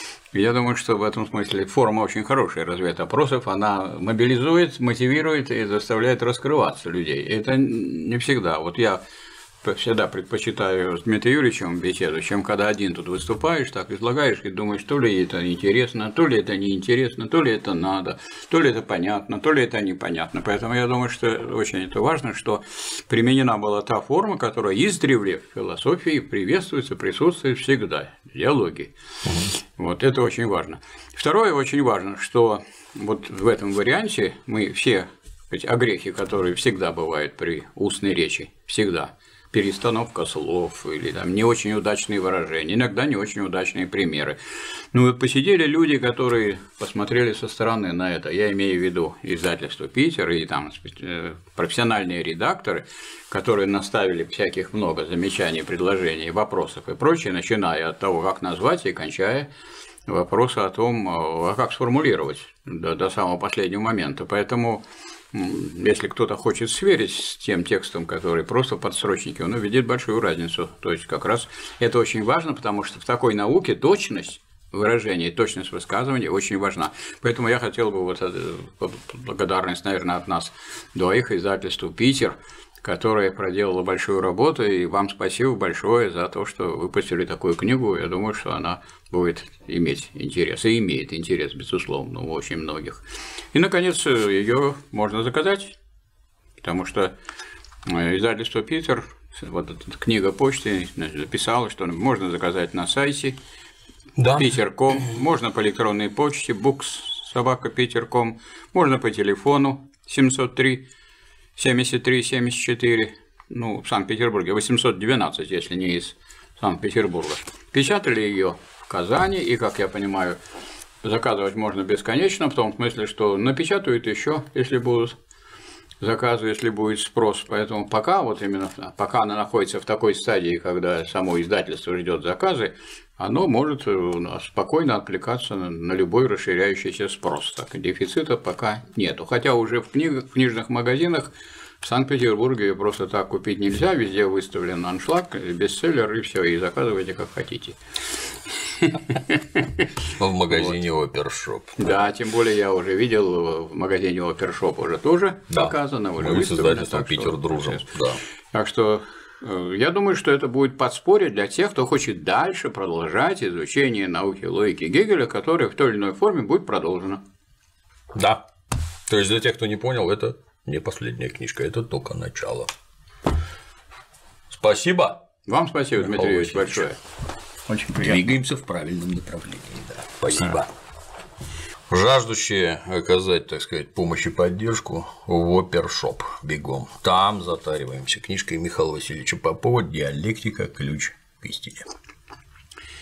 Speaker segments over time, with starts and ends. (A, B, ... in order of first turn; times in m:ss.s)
0:00.3-0:09.0 A
0:09.6-0:28.9 A
0:29.6-0:59.5 A
1:00.1-1:35.8 A
1:36.6-1:37.1 A
1:37.8-1:43.3 A
1:44.2-1:44.6 B
1:44.3-1:50.8 A
1:51.6-2:00.4 A
2:01.0-2:05.2 A
2:06.0-2:27.8 A
2:28.6-2:29.8 A
2:30.2-2:31.9 B
2:31.8-2:37.8 A
2:35.5-2:38.2 B
2:38.5-2:47.2 A
2:48.1-2:48.4 B
2:49.1-2:52.7 B
2:54.5-2:55.2 B
2:55.4-2:57.0 A
2:56.0-2:56.9 B
2:57.7-3:00.7 B
3:01.9-3:11.9 B